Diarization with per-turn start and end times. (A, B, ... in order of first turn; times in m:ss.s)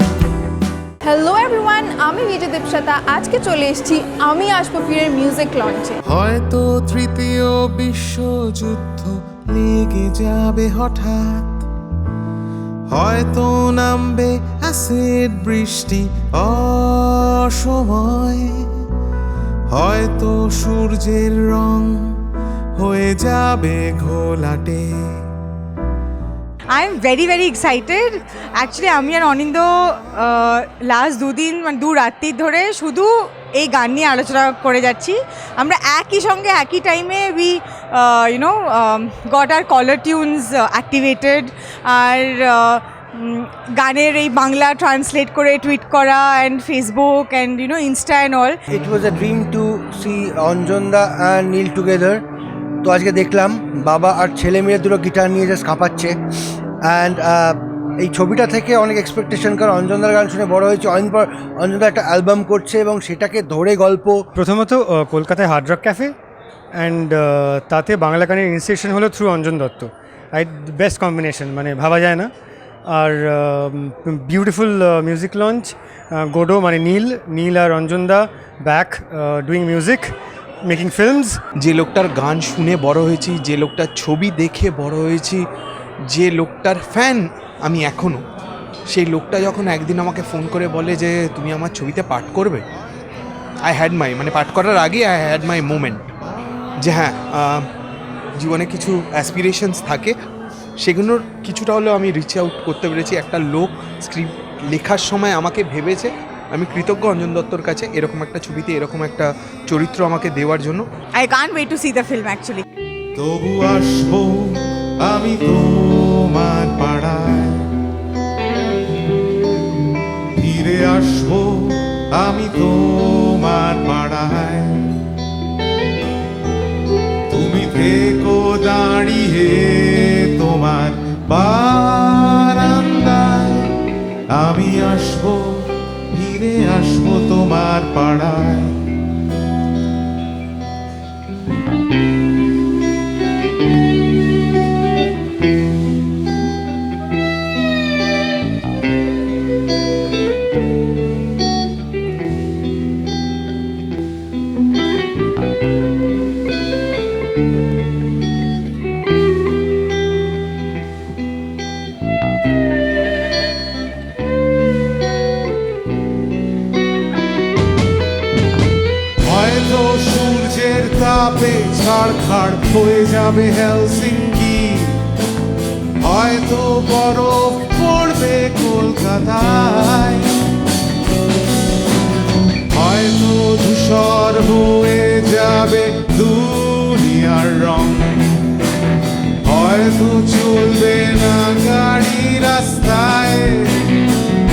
0:01.1-0:06.0 A
0:06.0-0:11.7 B
0:12.9-0:18.7 B
0:19.7-0:22.2 B
0:22.8-0:25.2 B
0:26.7-0:48.6 C
0:48.7-0:52.3 D
0:52.8-0:56.2 D
0:56.8-1:04.3 D
1:04.4-1:06.1 E
1:06.8-1:12.3 E
1:12.9-1:20.1 E
1:20.7-1:21.4 E
1:21.6-1:25.5 F
1:26.1-1:28.2 F
1:28.9-1:32.6 F
1:33.6-1:36.0 F
1:36.8-1:37.6 F
1:38.4-1:40.2 F
1:40.8-1:50.8 F
1:51.2-1:52.6 C
1:53.2-1:57.6 B
2:00.4-2:04.9 B
2:07.3-2:13.7 B
2:14.3-2:18.8 B
2:49.2-2:55.0 B
2:56.0-3:00.4 B
3:02.7-3:08.4 B
3:09.4-3:13.9 B